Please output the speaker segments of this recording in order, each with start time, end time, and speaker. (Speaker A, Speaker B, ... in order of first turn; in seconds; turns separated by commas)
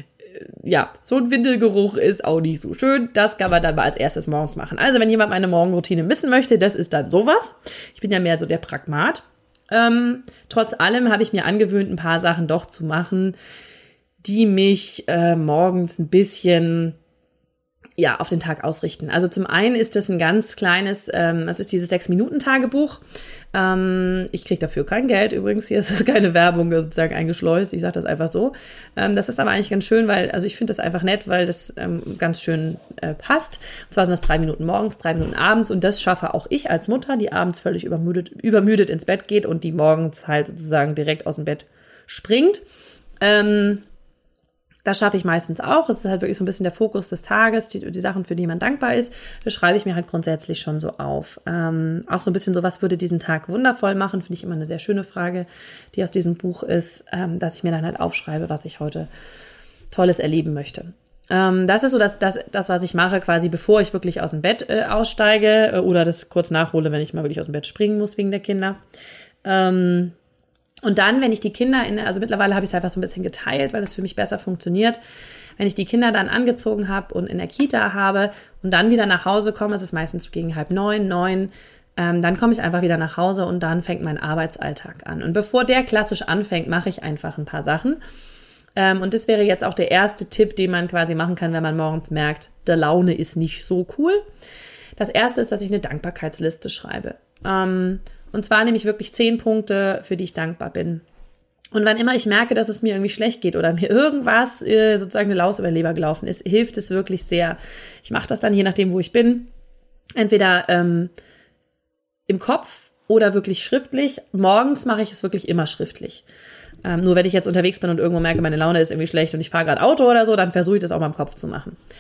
Speaker A: 0.2-13.4, Speaker A: 14.2-17.0, Speaker A: 18.0-23.0, Speaker A: 23.5-42.6, Speaker A: 43.2-43.8, Speaker A: 44.9-59.1, Speaker A: 59.9-68.8, Speaker A: 69.4-70.1, Speaker A: 70.8-75.0, Speaker A: 75.6-88.0, Speaker A: 88.8-94.2, Speaker A: 95.0-101.0, Speaker A: 101.7-109.5, Speaker A: 110.2-111.1, Speaker A: 112.3-116.2, Speaker A: 116.8-121.8